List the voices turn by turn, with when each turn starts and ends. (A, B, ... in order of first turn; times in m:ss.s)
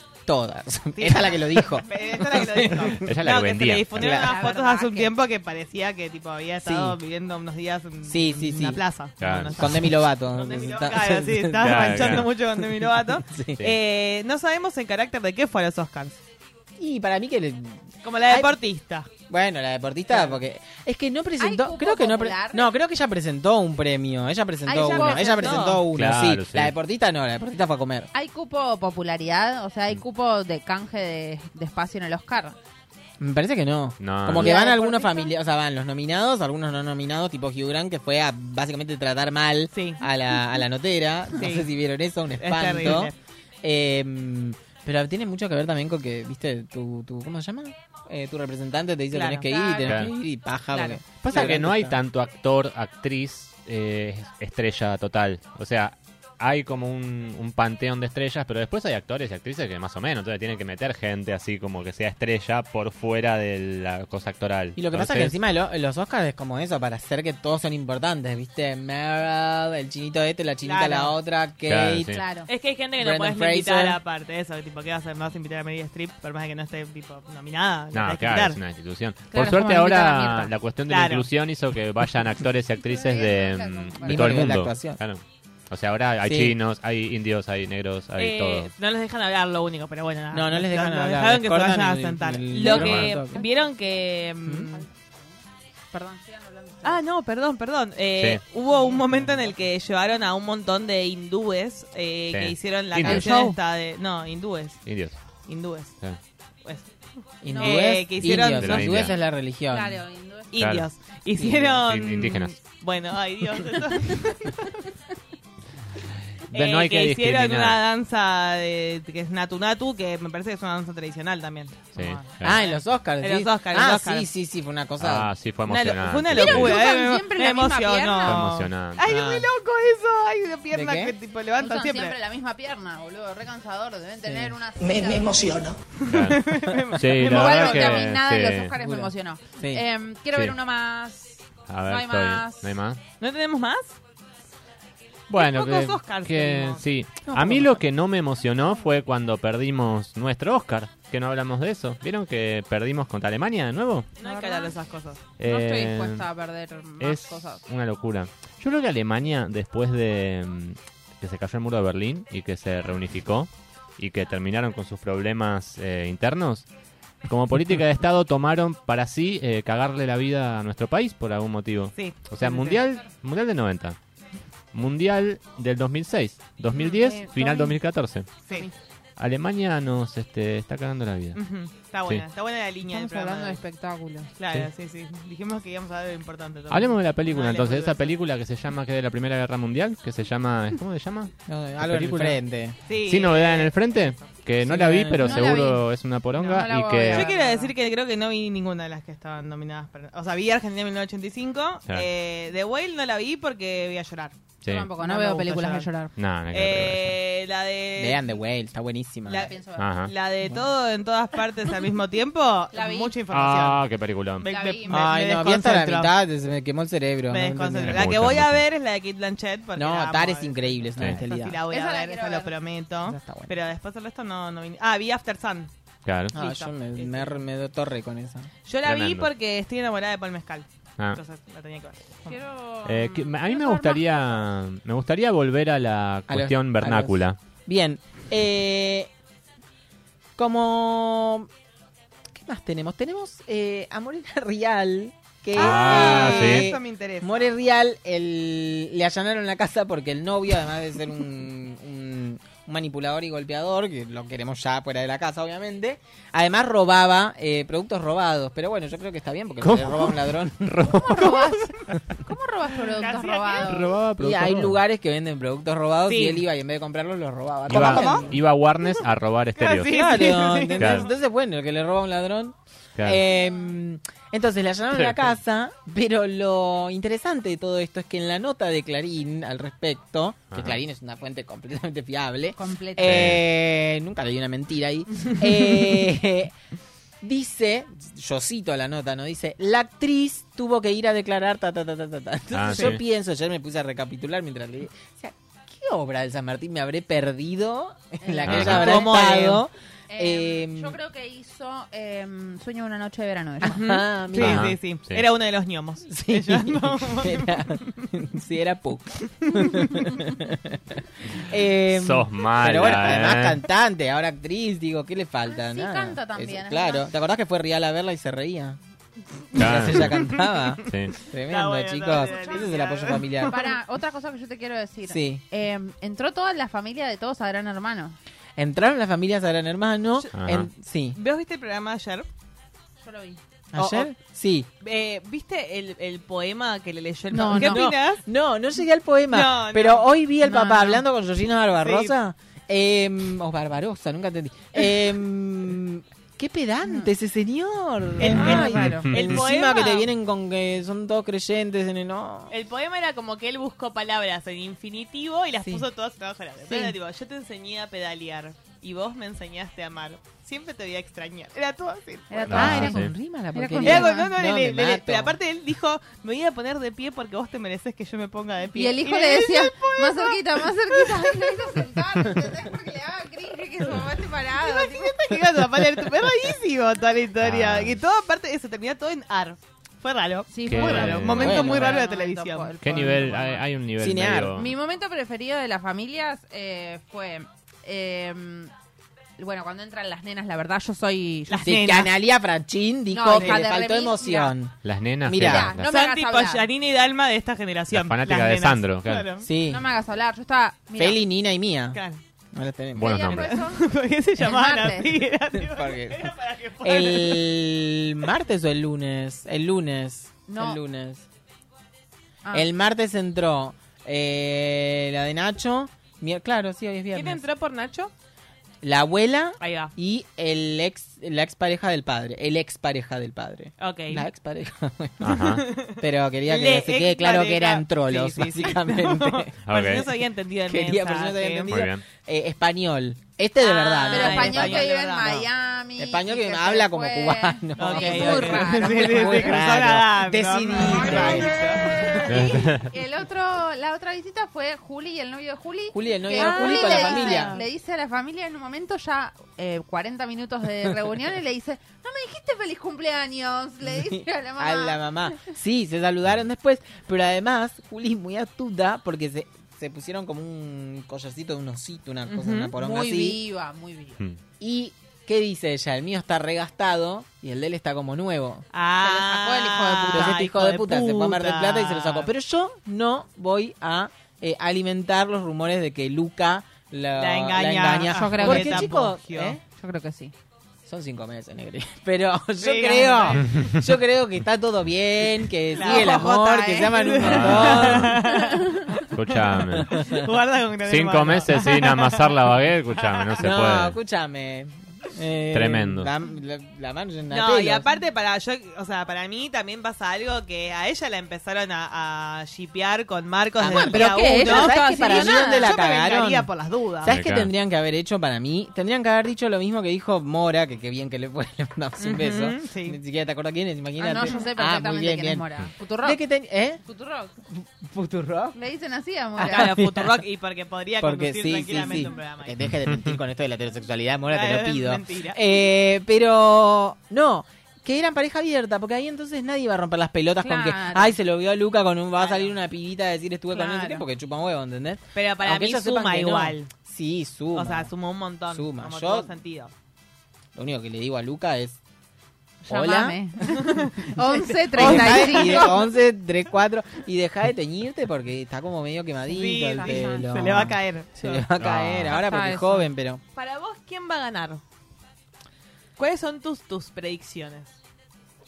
0:00.3-0:03.1 A
0:01.0-0:16.2 B
0:03.0-0:04.0 C
0:04.0-0:04.3 A
0:04.0-0:05.1 D
0:06.6-0:07.0 A
0:08.0-0:08.8 A
0:09.2-0:09.9 C
0:09.6-0:12.2 A
0:11.6-0:12.3 C
0:13.3-0:13.6 A
0:16.8-0:18.5 A
0:18.0-0:19.1 B
0:19.3-0:28.1 A
0:21.4-0:22.7 D
0:24.6-0:25.7 D
0:24.8-0:25.8 B
0:25.9-0:26.7 C
0:28.1-0:32.6 D
0:33.2-0:52.0 A
0:34.0-0:34.5 C
0:34.4-0:35.3 D
0:39.7-0:40.0 B
0:41.3-0:41.7 B
0:42.4-0:43.1 B
0:49.1-0:49.6 B
0:49.5-0:49.9 D
0:49.8-0:50.1 C
0:50.7-0:51.0 D
0:51.2-1:05.4 C
1:04.8-1:12.2 A
1:10.6-1:11.1 B
1:11.6-1:12.2 C
1:12.1-1:12.5 D
1:12.5-1:18.6 B
1:13.0-1:14.0 A
1:17.9-1:28.7 C
1:19.3-1:20.5 D
1:20.9-1:21.3 B
1:22.8-1:24.4 D
1:24.0-1:25.0 A
1:26.2-1:26.5 A
1:28.2-1:34.8 B
1:30.3-1:33.4 A
1:32.6-1:33.2 C
1:33.3-1:33.7 D
1:34.4-1:34.7 A
1:35.9-1:37.0 D
1:36.8-1:46.0 B
1:42.3-1:43.3 C
1:43.0-1:43.6 D
1:44.8-1:45.2 C
1:46.6-1:46.9 B
1:47.4-1:50.0 A
1:47.5-1:48.0 D
1:47.6-1:49.1 B
1:48.4-1:49.1 C
1:49.1-1:50.5 D
1:50.5-1:54.7 B
1:50.6-1:50.9 C
1:51.4-1:51.8 A
1:51.8-1:52.6 C
1:56.4-1:57.8 C
1:56.5-2:04.3 B
2:02.0-2:02.6 C
2:02.4-2:05.3 A
2:05.0-2:06.8 C
2:05.6-2:12.2 B
2:06.3-2:08.4 D
2:08.2-2:09.0 C
2:09.1-2:09.5 A
2:10.7-2:11.1 A
2:11.6-2:15.5 D
2:14.2-2:14.5 A
2:16.0-2:18.1 B
2:16.0-2:18.7 C
2:17.2-2:22.8 D
2:18.8-2:19.8 A
2:21.7-2:23.0 C
2:23.2-2:23.9 B
2:25.3-2:34.1 C
2:25.3-2:26.8 B
2:27.2-2:27.8 A
2:34.2-2:35.2 B
2:34.2-2:34.8 D
2:35.4-2:36.3 C
2:35.4-2:37.6 D
2:37.0-2:46.6 C
2:47.2-2:54.0 C
2:52.0-2:52.8 B
2:54.7-2:58.3 C
2:56.8-2:57.8 D
2:59.2-3:01.4 C
3:01.3-3:03.6 B
3:02.9-3:04.3 D
3:04.4-3:08.1 B
3:06.7-3:12.4 C
3:11.5-3:12.8 A
3:12.8-3:14.3 B
3:13.0-3:17.3 C
3:14.6-3:15.5 A
3:15.2-3:15.8 D
3:16.4-3:17.7 D
3:16.4-3:24.4 B
3:24.6-3:24.9 C
3:24.6-3:26.1 D
3:25.0-3:25.9 B
3:26.2-3:27.2 C
3:26.5-3:28.3 B
3:28.0-3:29.5 A
3:29.3-3:33.8 B
3:29.3-3:29.9 D
3:29.8-3:30.1 C
3:32.7-3:33.2 D
3:33.3-3:34.5 C
3:34.4-3:36.1 B
3:34.4-3:35.0 D
3:34.9-3:38.1 A
3:37.3-3:45.7 B
3:37.8-3:38.6 C
3:39.8-3:41.6 A
3:41.7-3:42.5 D
3:43.0-3:43.5 A
3:46.0-3:46.3 C
3:46.3-3:48.5 A
3:46.3-3:47.4 B
3:48.6-3:52.4 B
3:48.8-3:49.3 C
3:52.3-3:54.0 D
3:52.8-3:57.4 C
3:56.3-3:59.1 A
4:00.4-4:01.5 A
4:02.3-4:21.3 A
4:05.5-4:06.7 C
4:05.6-4:07.5 B
4:19.6-4:21.4 C
4:20.8-4:23.9 D
4:21.3-4:21.7 B
4:22.8-4:23.8 B
4:23.6-4:24.8 C
4:24.2-4:28.3 A
4:26.1-4:26.4 B
4:27.7-4:29.9 C
4:27.7-4:28.3 B
4:29.6-4:31.1 B
4:29.9-4:46.5 A
4:30.8-4:31.1 C
4:33.0-4:33.2 C
4:34.9-4:35.2 C
4:40.5-4:40.8 C
4:42.6-4:43.2 D
4:43.0-4:43.4 C
4:47.2-5:01.0 A
4:52.5-4:53.0 C
4:58.2-4:58.7 D
4:58.4-4:59.1 C
4:58.5-4:59.6 B
5:00.1-5:03.9 D
5:03.6-5:04.7 A
5:03.6-5:07.9 B
5:04.3-5:05.3 C
5:06.1-5:10.8 A
5:09.5-5:10.0 B
5:11.3-5:18.8 A
5:11.9-5:13.6 C
5:15.5-5:17.1 D
5:19.5-5:23.6 A
5:19.6-5:20.2 C
5:20.8-5:21.1 C
5:21.5-5:23.7 B
5:22.1-5:22.6 D
5:23.5-5:28.2 D
5:25.0-5:25.4 A
5:28.6-5:31.2 A
5:30.3-5:30.7 C
5:31.1-5:32.3 B
5:33.0-5:33.4 D
5:33.7-5:34.7 A
5:33.8-5:34.1 B
5:34.8-5:38.2 B
5:37.3-5:37.9 D
5:37.5-5:52.5 A
5:39.3-5:40.1 B
5:40.4-5:41.0 D
5:41.8-5:42.1 B
5:48.2-5:50.1 B
5:48.3-5:49.1 D
5:48.3-5:49.4 C
5:52.5-6:02.9 B
5:56.7-5:56.9 D
6:02.3-6:04.3 D
6:02.5-6:03.1 C
6:02.5-6:05.3 A
6:03.8-6:12.0 B
6:08.7-6:15.2 D
6:14.6-6:22.7 B
6:17.4-6:18.0 C
6:20.5-6:23.6 D
6:20.7-6:21.7 C
6:21.3-6:22.0 A
6:22.8-6:24.7 C
6:24.0-6:24.6 A
6:24.5-6:28.7 D
6:29.4-6:31.7 D
6:31.5-6:32.1 B
6:31.6-6:35.7 A
6:33.1-6:34.5 D
6:34.8-6:35.8 C
6:35.3-6:36.7 D
6:35.8-6:39.5 B
6:37.9-6:39.3 C
6:39.4-6:39.8 A
6:39.7-6:41.2 D
6:40.9-6:42.0 A
6:41.9-6:42.2 B
6:42.5-6:43.2 A
6:42.9-6:43.5 C
6:43.0-6:45.1 D
6:43.3-6:47.6 B
6:45.6-6:46.3 A
6:46.8-6:51.2 A
6:50.5-6:50.8 D
6:52.5-6:57.4 A
6:57.1-6:58.1 B
6:58.8-7:05.4 A
6:59.6-6:59.9 B
7:03.8-7:04.2 B
7:05.2-7:05.6 C
7:05.3-7:11.8 B
7:06.0-7:09.5 A
7:09.6-7:10.1 C
7:10.7-7:15.4 A
7:11.7-7:12.0 C
7:13.6-7:15.4 B
7:14.1-7:19.6 D
7:16.0-7:21.6 A
7:17.8-7:22.3 B
7:20.8-7:35.3 D
7:22.3-7:22.9 C
7:25.9-7:27.6 A
7:26.3-7:27.6 B
7:33.9-7:43.4 A
7:42.3-7:42.7 B
7:42.8-7:44.2 D
7:44.6-7:48.6 A
7:48.7-7:52.3 B
7:49.0-7:50.4 D
7:50.1-7:59.6 A
7:57.1-7:59.6 B
7:58.1-7:58.9 D
7:59.7-8:00.3 D
8:00.9-8:08.1 A
8:02.6-8:03.7 B
8:05.7-8:06.2 B
8:05.8-8:07.4 D
8:06.9-8:12.4 B
8:07.2-8:08.2 C
8:08.1-8:08.9 D
8:09.1-8:10.0 C
8:09.8-8:10.3 A
8:10.8-8:14.0 C
8:13.0-8:13.4 B
8:13.4-8:17.8 A
8:15.5-8:16.1 C
8:17.3-8:27.2 B
8:23.6-8:26.5 A
8:23.7-8:25.8 D
8:27.0-8:35.5 A
8:27.1-8:27.5 C
8:32.0-8:33.0 B
8:34.0-8:36.2 D
8:36.0-8:36.8 A
8:36.8-8:37.3 D
8:37.5-8:38.6 A
8:38.5-8:39.8 D
8:39.4-8:42.6 B
8:39.4-8:40.1 A
8:41.0-8:57.9 A
8:42.6-8:43.2 C
8:44.3-8:45.6 B
8:50.4-8:51.2 D
8:52.2-8:52.6 B
8:53.6-8:54.0 D
8:53.6-8:54.0 B
8:55.1-8:56.7 B
8:57.5-8:59.7 B
8:58.5-8:59.3 A
9:00.6-9:01.8 A
9:02.7-9:03.2 A
9:02.7-9:05.8 D
9:03.4-9:05.9 B
9:04.7-9:13.2 A
9:09.2-9:11.4 B
9:09.8-9:10.2 D
9:11.6-9:12.2 C
9:12.1-9:12.9 D
9:13.3-9:14.6 B
9:16.0-9:17.7 B